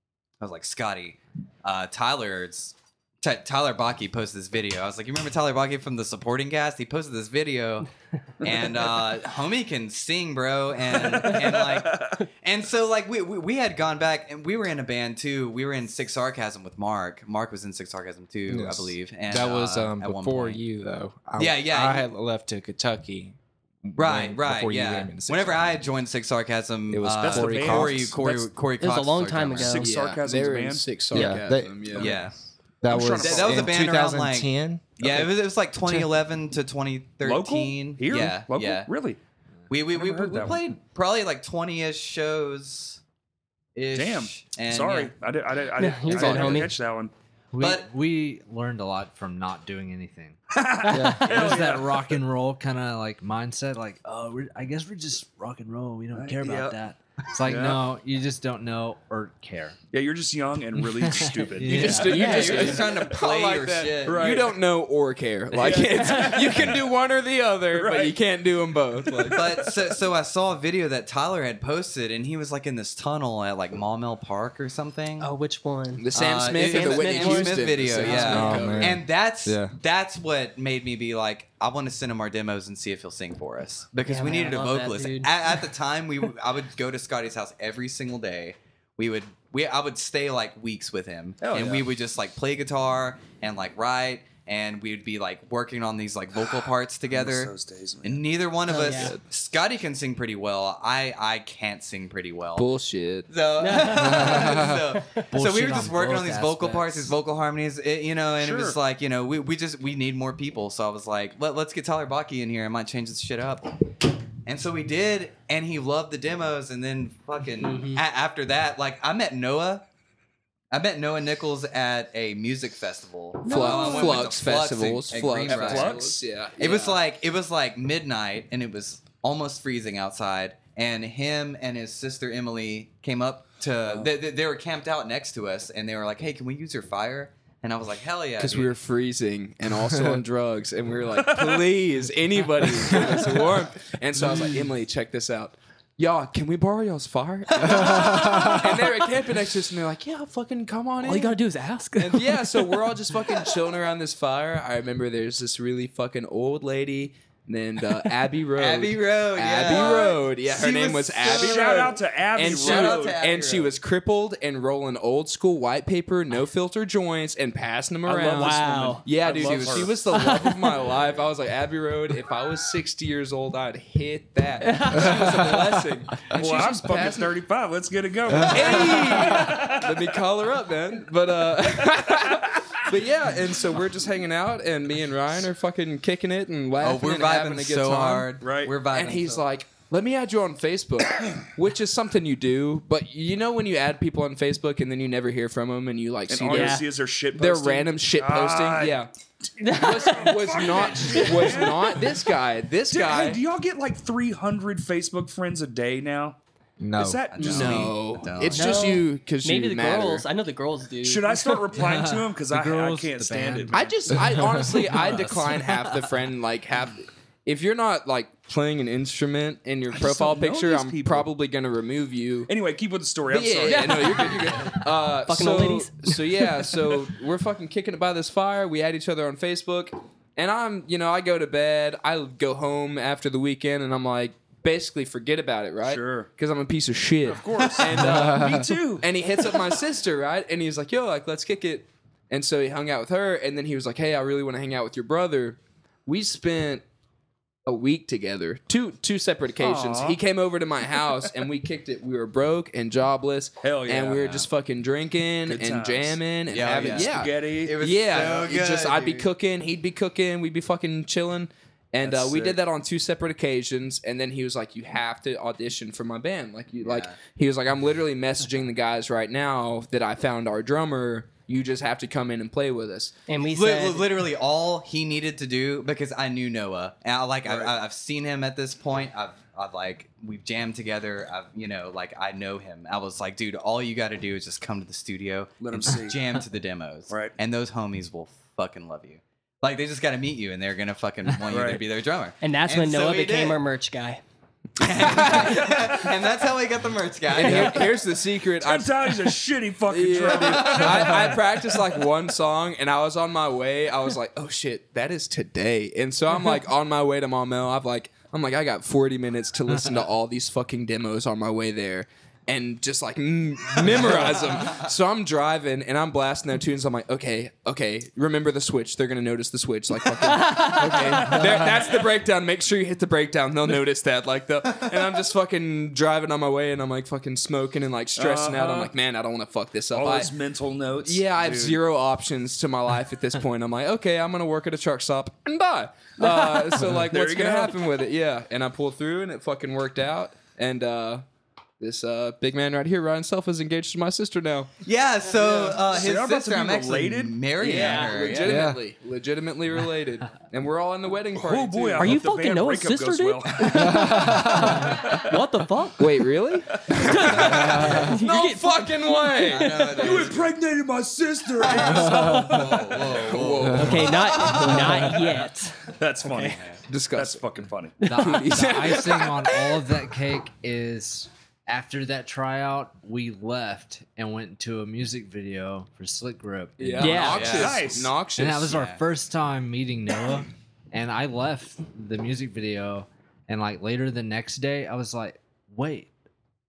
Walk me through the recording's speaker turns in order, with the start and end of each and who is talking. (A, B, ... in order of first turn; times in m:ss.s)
0:00.4-0:07.9 A
0:08.4-0:20.6 A
0:08.4-0:08.7 B
0:10.9-0:12.2 B
0:18.5-0:25.8 C
0:21.4-0:22.1 A
0:24.0-0:29.9 A
0:26.9-0:28.2 C
0:27.2-0:28.5 B
0:28.8-0:29.9 D
0:29.6-0:31.2 B
0:29.8-0:32.2 E
0:31.1-0:32.2 C
0:31.9-0:32.4 A
0:32.8-0:34.9 C
0:32.9-0:33.9 B
0:33.2-0:38.9 A
0:33.2-0:33.6 E
0:35.0-0:35.3 B
0:37.2-0:39.2 B
0:39.7-0:43.0 A
0:39.9-0:40.6 B
0:43.8-0:45.1 A
0:43.9-0:47.1 B
0:45.8-0:46.7 D
0:46.1-0:46.5 A
0:46.2-0:46.7 E
0:47.5-0:59.8 F
0:47.6-0:47.9 A
0:50.5-0:52.2 B
0:50.9-0:51.3 C
0:56.1-0:56.8 B
0:57.4-0:57.8 B
0:59.9-1:03.2 B
1:00.8-1:02.7 F
1:01.6-1:09.7 E
1:02.1-1:04.4 A
1:04.0-1:04.6 B
1:05.5-1:06.9 B
1:05.7-1:06.7 D
1:07.7-1:08.3 B
1:09.0-1:10.0 B
1:09.3-1:15.3 A
1:15.2-1:18.6 D
1:16.0-1:19.0 E
1:16.1-1:42.7 A
1:18.2-1:19.8 C
1:24.0-1:25.3 D
1:31.4-1:31.9 B
1:37.1-1:38.2 B
1:38.7-1:39.2 D
1:38.9-1:39.2 E
1:42.6-1:43.3 E
1:43.3-1:59.8 A
1:43.6-1:44.8 D
1:43.9-1:44.7 E
1:45.3-1:47.2 F
1:48.4-1:48.8 B
1:57.6-1:58.0 D
2:00.7-2:18.8 A
2:03.4-2:04.6 B
2:03.4-2:07.0 E
2:05.5-2:06.3 B
2:18.4-2:31.4 E
2:21.2-2:21.7 B
2:22.9-2:23.3 B
2:27.6-2:28.5 A
2:31.0-2:32.9 D
2:32.0-2:57.4 E
2:38.6-2:43.7 A
2:39.7-2:40.0 B
2:41.2-2:43.2 B
2:48.1-2:49.1 D
2:48.1-2:50.0 B
2:49.4-2:49.9 A
2:49.9-2:50.8 D
2:54.6-2:55.6 D
2:55.3-2:55.6 C
2:56.3-3:00.2 B
2:58.4-3:19.1 E
3:01.9-3:02.9 B
3:06.8-3:09.4 A
3:08.4-3:08.8 B
3:16.3-3:22.2 B
3:16.5-3:16.8 D
3:19.6-3:22.0 D
3:19.7-3:23.4 E
3:22.9-3:26.4 B
3:26.8-3:27.3 C
3:27.0-3:28.0 B
3:27.3-3:29.0 A
3:27.4-3:30.2 E
3:28.5-3:31.7 D
3:31.0-3:34.1 B
3:31.7-3:35.8 F
3:33.7-3:42.5 E
3:39.9-3:41.3 B
3:42.5-3:44.3 B
3:43.3-4:06.8 E
3:43.7-3:46.4 D
3:55.8-3:56.3 B
3:57.2-3:59.6 B
3:58.1-3:58.7 C
4:07.7-4:33.1 E
4:09.6-4:10.2 B
4:13.6-4:14.4 B
4:15.4-4:16.2 B
4:16.5-4:19.3 A
4:16.8-4:18.4 B
4:22.0-4:22.6 B
4:26.8-4:27.2 A
4:33.3-4:34.1 D
4:33.5-4:53.6 A
4:37.4-4:37.7 B
4:45.6-4:46.2 B
4:51.5-4:51.8 B
4:52.4-4:54.2 D
4:54.8-4:57.9 A
4:54.8-4:55.8 E
4:57.3-4:59.4 E
4:58.6-5:01.6 B
4:59.9-5:30.3 E
5:00.3-5:01.0 A
5:20.2-5:21.5 D
5:21.3-5:21.6 C
5:28.2-5:28.9 B
5:29.9-5:31.8 B
5:31.0-5:41.2 E
5:36.9-5:37.8 B
5:41.8-5:44.7 E
5:44.8-5:48.6 A
5:45.3-5:47.5 B
5:47.6-5:52.2 E
5:47.7-5:48.3 D
5:48.4-5:48.8 C
5:51.3-5:55.4 B
5:52.0-5:56.1 D
5:56.0-6:00.2 E
5:56.8-5:57.8 B
5:56.9-6:00.2 D
5:59.5-6:00.5 A
6:00.0-6:03.4 B
6:01.6-6:05.2 A
6:01.9-6:05.1 E
6:03.8-6:06.6 D
6:05.9-6:08.0 B
6:06.9-6:07.4 E
6:08.0-6:08.4 D
6:08.1-6:17.6 F
6:08.2-6:09.8 E
6:16.8-6:18.8 E
6:17.0-6:17.5 D
6:17.2-6:17.9 A
6:17.5-6:18.2 B
6:18.4-6:26.1 F
6:18.7-6:19.0 A